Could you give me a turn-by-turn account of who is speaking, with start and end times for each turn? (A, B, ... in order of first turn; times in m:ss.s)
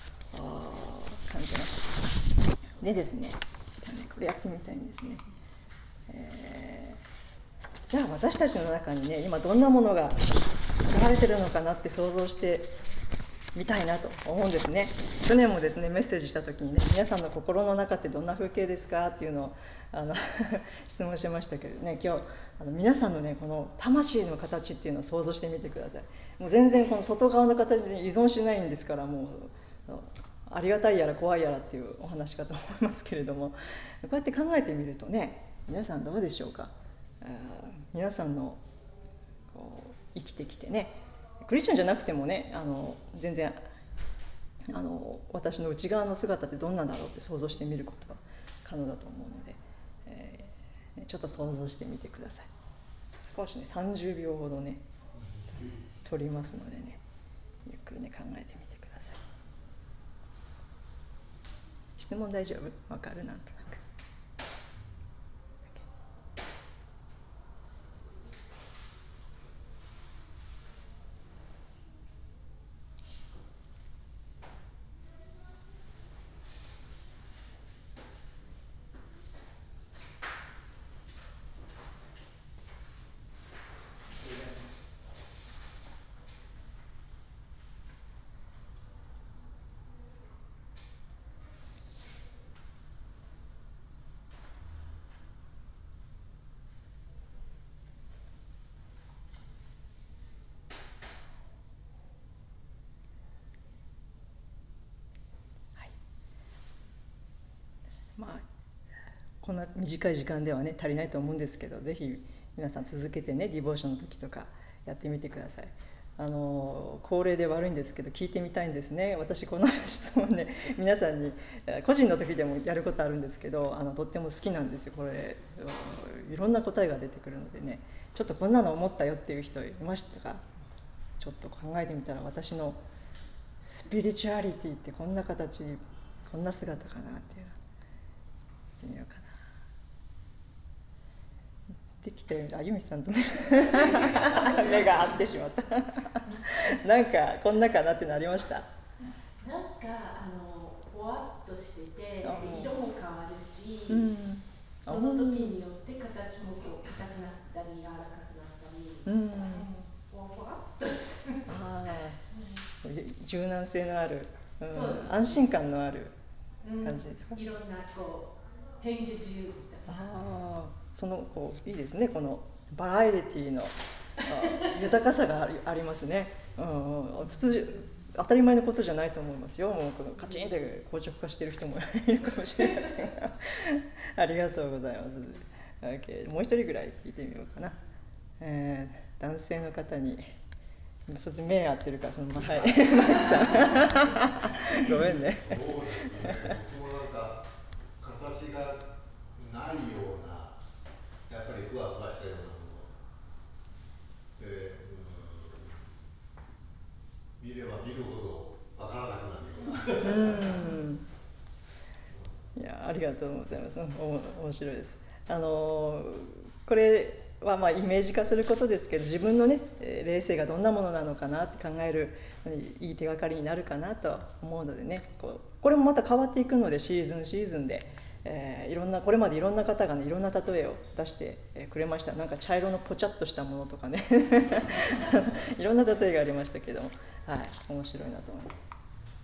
0:00.3-0:02.0 A
0:02.8-0:05.2 A
0:06.1-0:07.0 A
0:07.9-0:12.8 A
0:13.5-0:38.6 A
0:39.5-0:43.6 A
0:44.7-0:52.5 A
0:53.2-0:54.8 A
0:56.0-0:57.0 A
0:57.6-0:59.2 A
1:02.0-1:03.8 A
1:48.2-1:48.4 A
1:49.4-2:10.4 A
2:11.2-2:12.8 A
2:13.7-2:17.6 A
2:18.8-2:19.4 A
2:22.0-2:28.7 A
2:29.4-2:33.9 B
2:32.2-2:32.8 A
2:33.9-2:35.6 A
2:35.2-2:39.0 B
2:39.0-2:39.7 A
2:39.9-2:41.4 B
2:41.5-2:42.2 A
2:42.8-2:46.2 A
2:46.8-2:47.4 A
2:47.6-2:48.2 B
2:48.8-2:49.8 B
2:49.9-3:07.8 A
3:08.4-3:10.3 A
3:11.1-3:16.5 A
3:13.4-3:13.7 C
3:14.6-3:17.5 C
3:18.0-3:20.6 C
3:21.3-3:22.9 C
3:24.4-3:25.8 C
3:27.4-3:30.7 C
3:30.0-3:31.0 A
3:32.6-3:58.6 A